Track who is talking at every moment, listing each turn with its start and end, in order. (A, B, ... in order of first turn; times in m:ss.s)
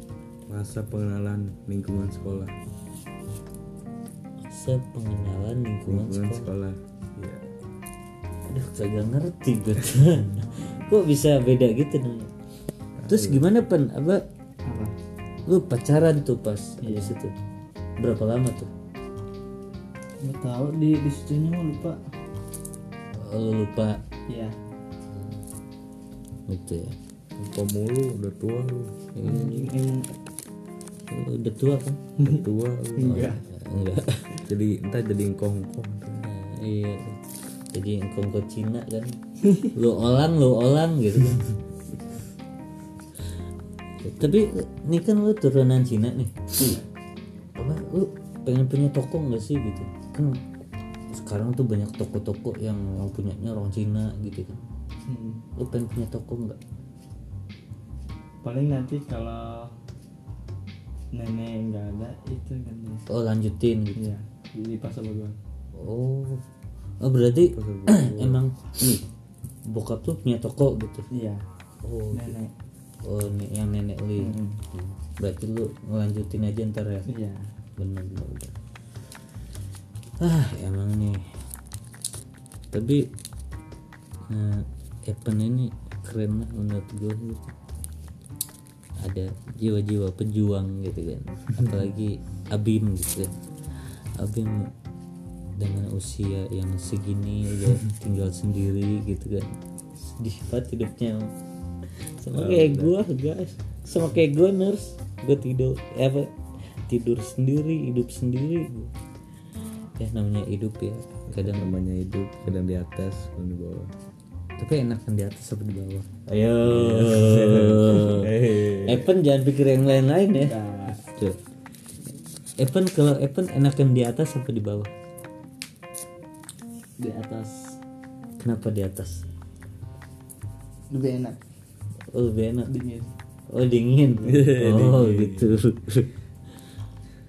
0:00.5-0:02.5 A
0:04.5-0:06.5 B
0:05.9-0:07.5 A
0:08.5-0:12.3 B
0:13.0-0:13.5 A
0:13.1-0:14.2 B
0:14.6-0:14.9 C
0:15.5-0:17.3 B
0:16.8-0:17.1 C
0:18.0-0:18.7 B
0:20.2-0:22.0 C
0:23.1-0:24.0 B
0:24.3-0:24.5 C
0:25.1-0:25.4 B
0:26.5-0:26.9 B
0:27.4-0:29.0 A
0:29.1-0:29.7 B
0:29.2-0:30.2 C
0:31.1-0:32.0 B
0:32.2-0:33.3 A
0:33.0-0:33.4 C
0:33.1-0:34.5 B
0:34.5-0:36.3 A
0:36.2-0:41.5 B
0:44.0-0:46.7 B
0:47.6-0:50.4 B
0:51.1-0:54.6 B
0:55.1-0:55.4 C
0:55.6-0:56.6 B
0:58.4-0:59.7 C
1:01.1-1:03.0 C
1:03.1-1:04.1 B
1:04.0-1:05.4 C
1:05.8-1:06.4 B
1:07.0-1:09.0 B
1:07.5-1:08.4 A
1:09.7-1:11.1 B
1:11.1-1:11.4 C
1:11.8-1:12.3 B
1:12.1-1:12.5 C
1:13.0-1:17.1 B
1:14.2-1:14.6 C
1:17.1-1:17.5 C
1:17.8-1:18.5 B
1:20.2-1:21.2 B
1:22.7-1:23.0 B
1:24.3-1:27.6 B
1:29.0-1:33.3 B
1:34.2-1:34.7 B
1:35.6-1:41.3 B
1:42.2-1:46.3 B
1:42.3-1:42.9 A
1:46.8-1:48.9 B
1:50.0-1:51.7 B
1:51.4-1:53.9 A
1:54.6-2:00.5 B
1:56.6-1:59.1 A
2:00.3-2:01.0 C
2:01.0-2:01.4 B
2:02.6-2:04.9 B
2:07.0-2:07.8 C
2:08.4-2:09.2 B
2:10.9-2:11.4 C
2:12.1-2:12.7 B
2:12.7-2:13.1 C
2:13.5-2:16.1 B
2:14.2-2:15.5 A